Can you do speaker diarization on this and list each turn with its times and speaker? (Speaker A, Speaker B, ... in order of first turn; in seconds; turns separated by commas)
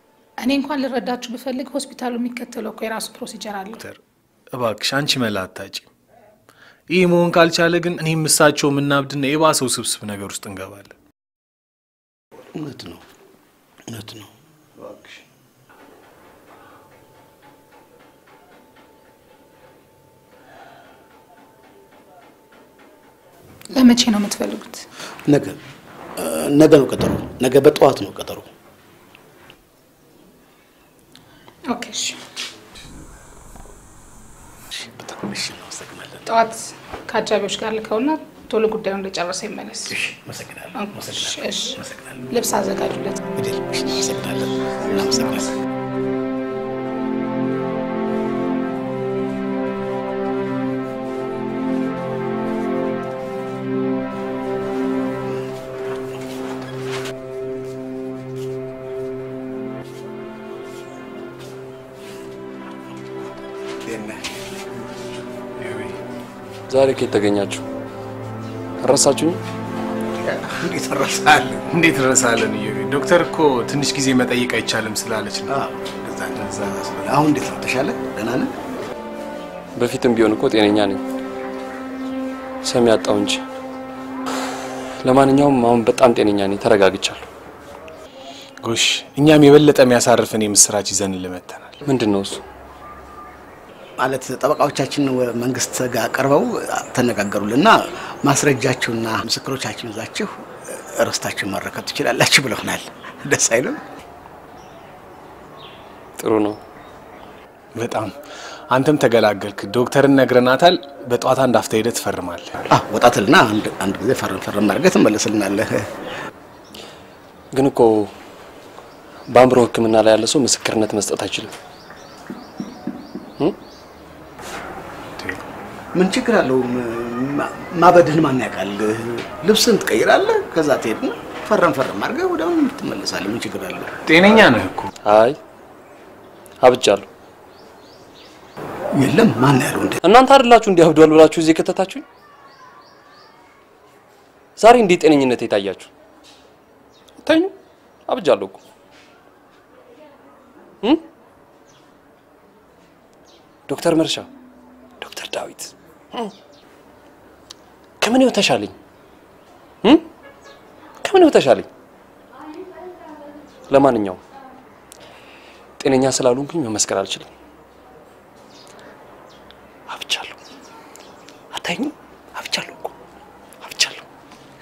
Speaker A: 0.4-3.8, Speaker B: 4.5-5.9, Speaker B: 6.9-10.9, Speaker C: 12.5-13.0, Speaker C: 13.9-14.3, Speaker B: 14.8-15.2, Speaker A: 23.8-24.8, Speaker C: 25.3-25.6, Speaker C: 26.2-28.5, Speaker A: 31.7-32.2, Speaker C: 34.7-36.2, Speaker A: 36.3-39.9, Speaker C: 39.9-42.3, Speaker A: 40.8-41.8, Speaker A: 42.3-43.2, Speaker C: 43.4-45.5, Speaker C: 63.9-64.2, Speaker B: 65.6-66.0, Speaker D: 66.7-67.6, Speaker D: 68.8-69.4, Speaker C: 70.2-71.6, Speaker B: 71.7-75.6, Speaker C: 75.5-78.5, Speaker B: 76.4-76.8, Speaker D: 79.8-81.0, Speaker D: 82.7-83.4, Speaker D: 85.0-87.2, Speaker B: 88.6-91.8, Speaker D: 91.8-92.4, Speaker C: 94.0-103.8, Speaker D: 106.2-106.6, Speaker B: 107.8-108.2, Speaker B: 108.7-112.6, Speaker C: 112.7-115.9, Speaker D: 117.5-118.1, Speaker D: 119.3-121.5, Speaker B: 125.2-125.4, Speaker C: 126.0-133.9, Speaker B: 134.1-134.9, Speaker D: 135.0-135.4, Speaker D: 136.6-137.1, Speaker C: 139.0-140.0, Speaker D: 140.0-142.1, Speaker D: 144.6-145.9, Speaker D: 147.2-147.5, Speaker D: 148.1-148.6, Speaker D: 153.7-154.3, Speaker D: 155.0-156.3, Speaker D: 158.0-158.8, Speaker D: 161.0-161.7, Speaker D: 163.7-164.2, Speaker D: 165.8-167.3, Speaker D: 169.9-170.4, Speaker D: 171.5-172.9, Speaker D: 173.6-174.0